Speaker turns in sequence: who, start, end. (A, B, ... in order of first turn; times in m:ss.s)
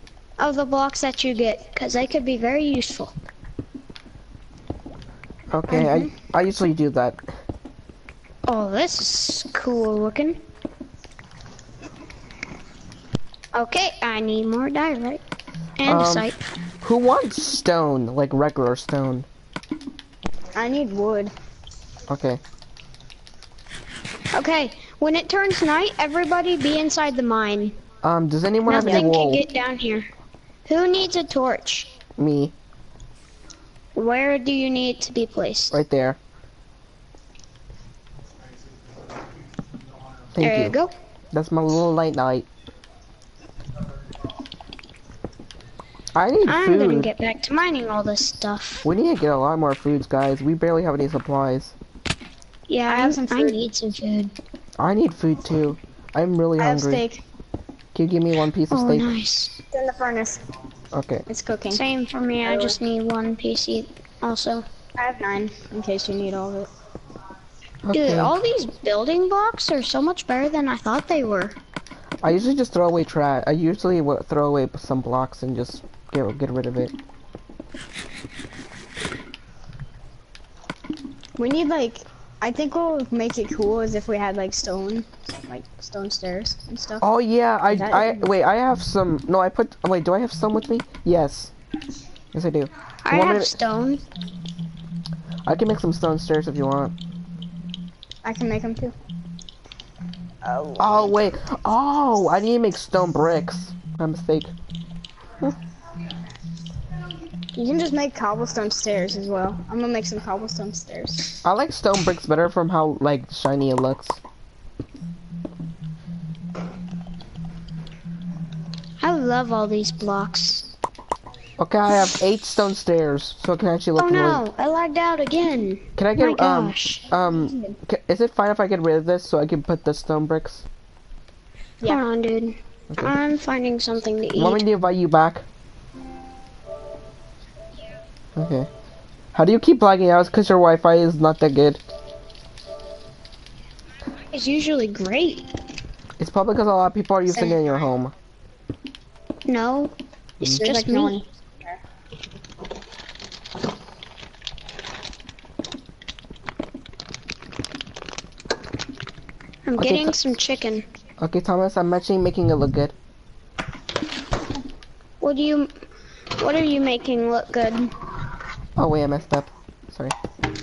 0:00.4-0:03.1 A
0:05.5-0:07.2 B
0:05.7-0:06.1 C
0:08.5-0:10.4 A
0:13.5-0:15.2 A
0:15.8-0:16.4 A
0:15.8-0:16.3 B
0:16.8-0:19.3 B
0:20.5-0:21.3 C
0:22.1-0:22.4 B
0:24.3-0:27.8 A
0:28.0-0:29.4 B
0:28.6-0:30.1 A
0:28.8-0:29.1 C
0:30.6-0:31.9 A
0:32.2-0:32.5 B
0:33.9-0:35.8 A
0:35.7-0:36.2 B
0:40.3-0:40.8 B
0:40.4-0:40.9 A
0:41.3-0:42.5 B
0:46.1-0:47.1 B
0:46.4-0:48.8 A
0:48.8-0:51.7 B
0:52.7-0:54.3 A
0:52.9-0:53.6 C
0:54.8-0:57.0 B
0:56.6-0:57.2 C
0:57.9-0:59.1 B
0:58.7-0:59.6 A
0:59.7-1:00.4 C
1:00.9-1:01.3 B
1:01.3-1:01.8 C
1:01.7-1:04.6 A
1:02.4-1:02.8 C
1:05.0-1:06.7 C
1:07.8-1:08.3 B
1:07.9-1:11.6 A
1:12.2-1:16.9 B
1:21.4-1:27.0 C
1:27.0-1:31.5 B
1:27.7-1:28.3 C
1:32.3-1:33.5 B
1:33.0-1:34.0 A
1:35.4-1:36.9 B
1:38.2-1:38.9 C
1:40.4-1:41.1 C
1:40.8-1:44.5 B
1:47.5-1:51.3 C
1:51.4-1:54.2 B
1:59.0-2:00.7 A
2:01.6-2:04.4 B
2:04.0-2:07.0 A
2:06.0-2:10.6 B
2:07.4-2:07.8 C
2:11.8-2:14.6 A
2:14.4-2:15.4 B
2:18.3-2:18.7 B
2:19.3-2:21.8 B
2:24.3-2:25.4 A
2:26.2-2:28.1 B
2:27.3-2:27.6 C
2:29.4-2:31.2 A
2:30.5-2:31.8 C
2:39.6-2:40.8 A
2:39.8-2:40.1 B
2:41.2-2:42.9 B
2:45.2-2:45.7 A
2:46.4-2:47.9 A
2:48.8-2:50.1 B